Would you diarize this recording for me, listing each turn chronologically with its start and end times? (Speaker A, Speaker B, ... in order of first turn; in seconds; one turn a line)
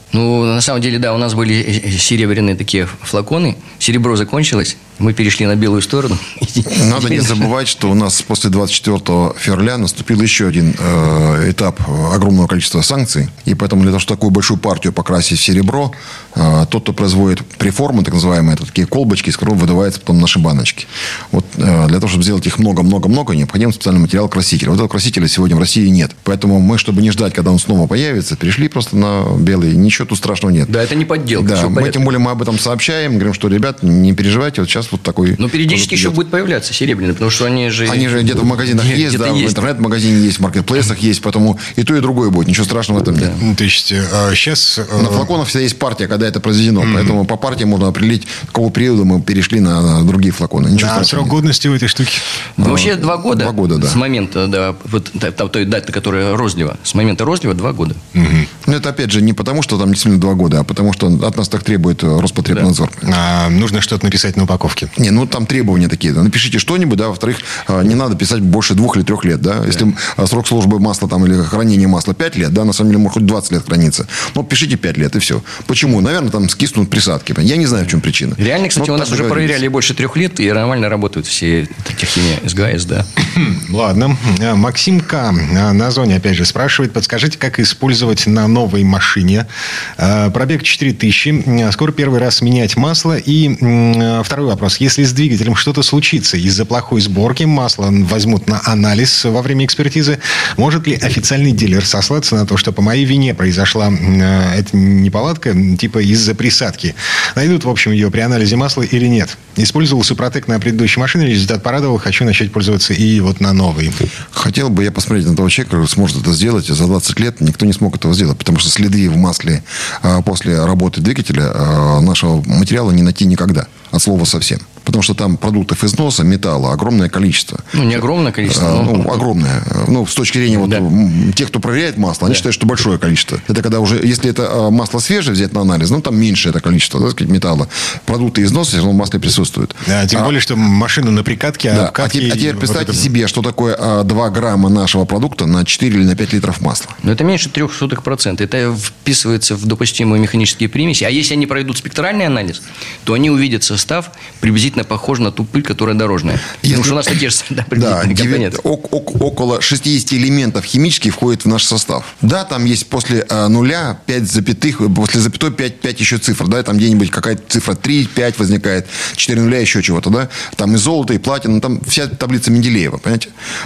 Speaker A: 0.1-7.5
Speaker B: 6.7-30.7
Speaker A: 30.7-32.0
Speaker B: 31.4-36.1
Speaker A: 35.4-39.6
Speaker B: 37.9-43.4
Speaker C: 43.4-45.3
Speaker B: 45.0-51.4
Speaker C: 46.8-47.2
Speaker C: 50.7-52.2
Speaker A: 52.6-58.0
Speaker B: 52.6-54.0
Speaker C: 58.1-58.5
Speaker B: 58.6-63.1
Speaker C: 63.0-64.9
Speaker B: 65.0-79.6
Speaker A: 78.4-83.1
Speaker C: 83.3-89.5
Speaker C: 90.0-113.9
Speaker B: 114.3-140.3
Speaker A: 127.7-129.2
Speaker A: 130.6-130.8
Speaker C: 139.8-143.1
Speaker B: 141.7-146.9
Speaker A: 147.0-158.6
Speaker B: 156.6-157.2
Speaker B: 157.7-173.3